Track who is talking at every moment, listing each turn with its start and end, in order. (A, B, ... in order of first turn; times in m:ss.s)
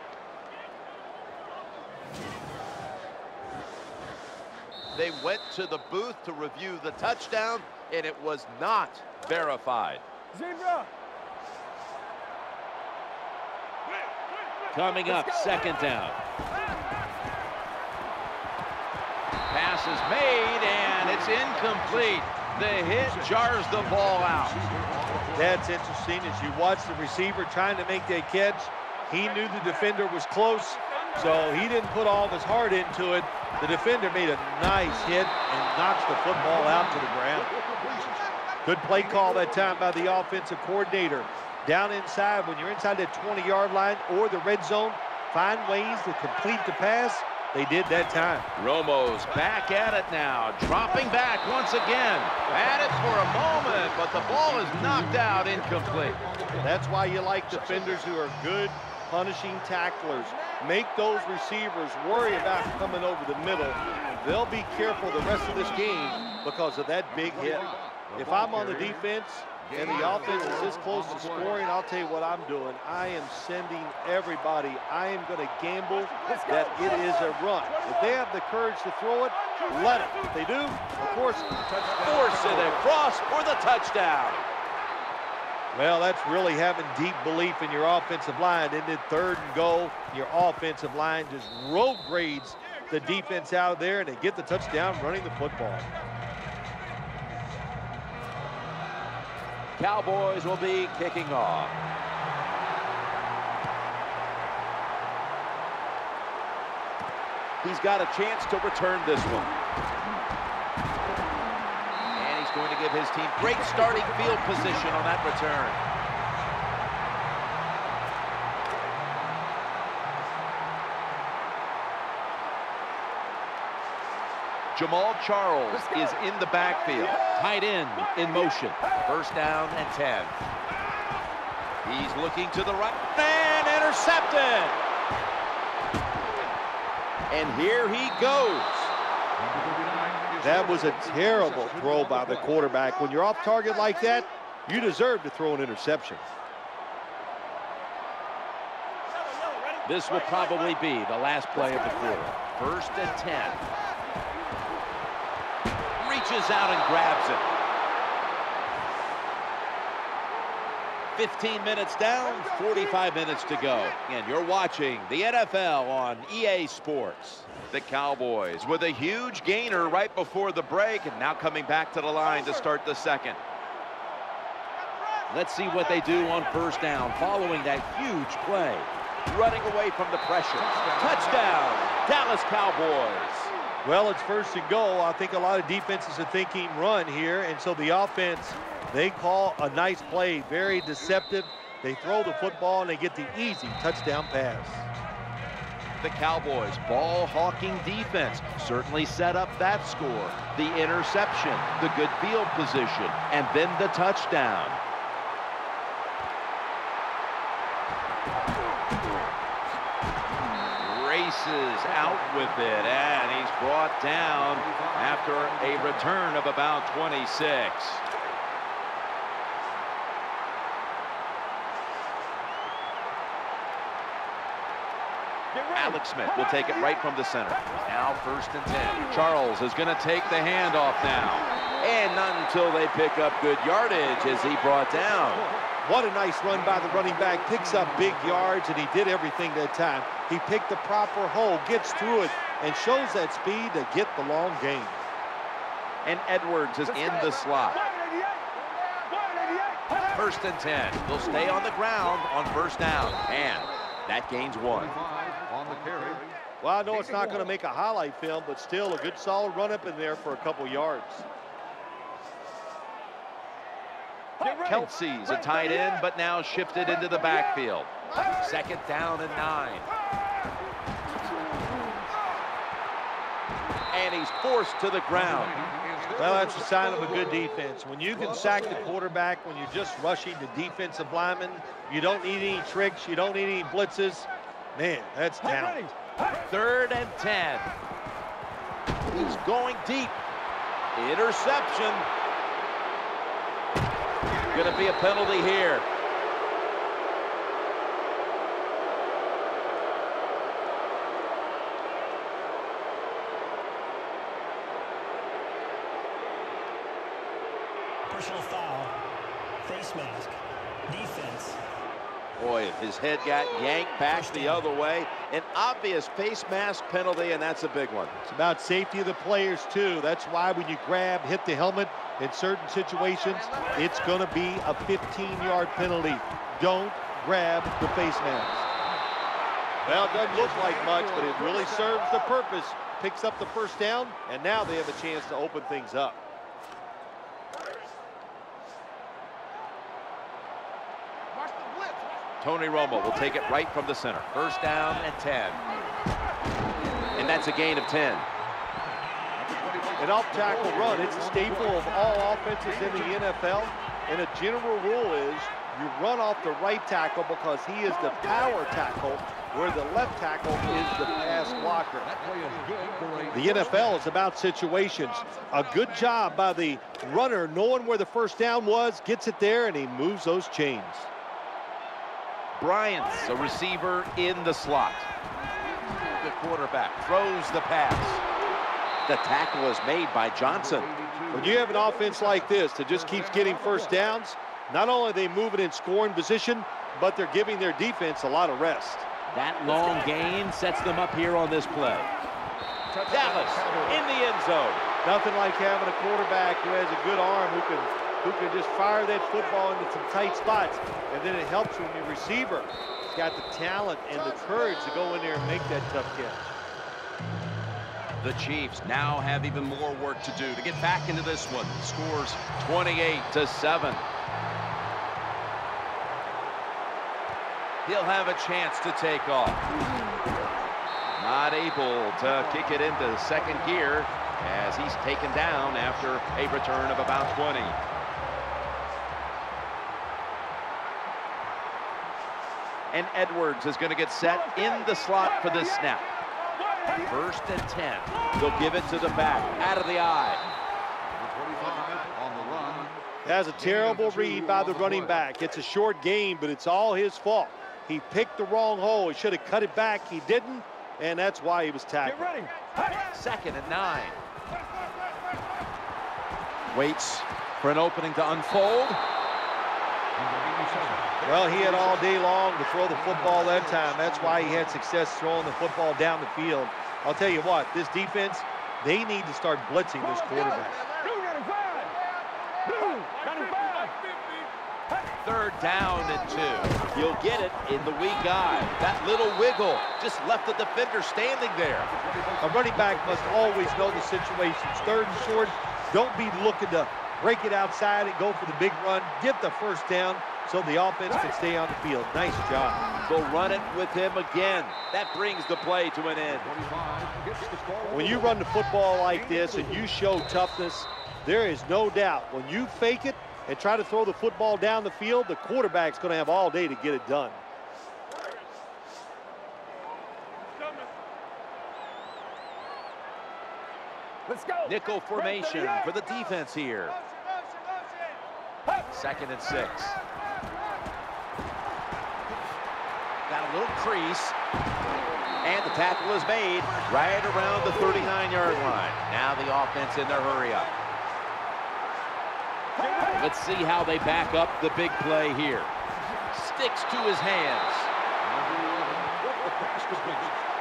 0:05.0-0:10.0 A
0:14.7-0:16.2 A
0:19.5-0:24.6 A
0:23.0-0:25.5 B
0:25.3-0:37.5 C
0:37.4-0:38.4 B
0:38.6-0:48.5 C
0:39.2-0:39.6 B
0:48.6-0:56.2 A
0:54.6-0:56.6 B
0:56.6-1:21.6 C
1:07.1-1:09.0 B
1:09.6-1:11.6 B
1:21.7-1:22.8 B
1:22.0-1:24.5 A
1:25.7-1:35.9 C
1:39.8-1:41.8 A
1:47.6-1:49.5 A
1:52.2-1:55.8 A
1:53.8-1:54.5 B
2:04.8-2:10.4 A
2:11.8-2:14.8 A
2:17.3-2:18.9 A
2:19.4-2:22.5 B
2:20.4-2:26.2 C
2:29.8-2:33.6 A
2:36.0-2:37.5 A
2:41.2-2:53.4 A
2:55.3-3:03.5 A
3:00.7-3:01.5 B
3:03.8-3:15.0 C
3:16.0-3:24.8 A
3:30.8-3:38.0 A
3:34.6-3:36.0 B
3:45.7-3:55.5 A
3:55.8-4:05.0 C
4:06.0-4:07.9 A
4:10.1-4:15.0 A
4:14.8-4:16.4 B
4:16.6-4:21.3 C
4:24.4-4:29.9 A
4:33.9-4:35.6 A
4:35.3-4:37.2 B
4:36.2-4:45.9 C
4:46.5-4:47.7 A
4:49.1-4:50.2 A
4:51.0-4:52.1 A
4:54.5-4:55.9 A
5:08.1-5:09.0 D
5:09.6-5:11.6 D
5:12.4-5:18.1 A
5:14.1-5:14.6 D
5:18.2-5:28.7 C
5:29.8-5:36.2 C
5:29.9-5:31.8 B
5:42.4-5:45.6 A
5:47.2-5:48.3 A
5:49.4-5:51.9 B
5:50.0-6:02.2 C
6:02.0-6:04.0 B
6:03.3-6:11.1 C
6:12.6-6:15.1 A
6:16.0-6:18.2 A
6:19.1-6:20.9 A
6:20.5-6:22.2 B
6:21.3-6:29.1 C
6:22.9-6:23.9 B
6:29.3-6:32.1 A
6:32.9-6:34.0 B
6:33.1-6:34.8 A
6:35.0-6:46.5 C
6:48.2-6:54.0 A
6:57.8-6:59.6 A
7:01.2-7:07.8 A
7:12.9-7:16.1 A
7:17.0-7:20.4 A
7:21.0-7:23.0 B
7:23.2-7:32.5 C
7:23.6-7:25.2 B
7:33.1-7:34.2 A
7:36.7-7:39.0 A
7:40.2-7:42.0 B
7:41.2-7:51.0 C
7:43.0-7:44.7 B
7:55.2-8:01.9 A
8:02.4-8:13.0 C
8:13.0-8:16.6 A
8:16.3-8:18.4 B
8:17.9-8:27.4 C
8:19.2-8:19.8 B
8:34.6-8:37.0 A
8:38.9-8:40.0 A
8:43.3-8:44.4 A
8:45.4-8:50.7 A
8:53.1-8:55.7 A
8:56.3-8:57.9 A
8:58.2-9:00.4 B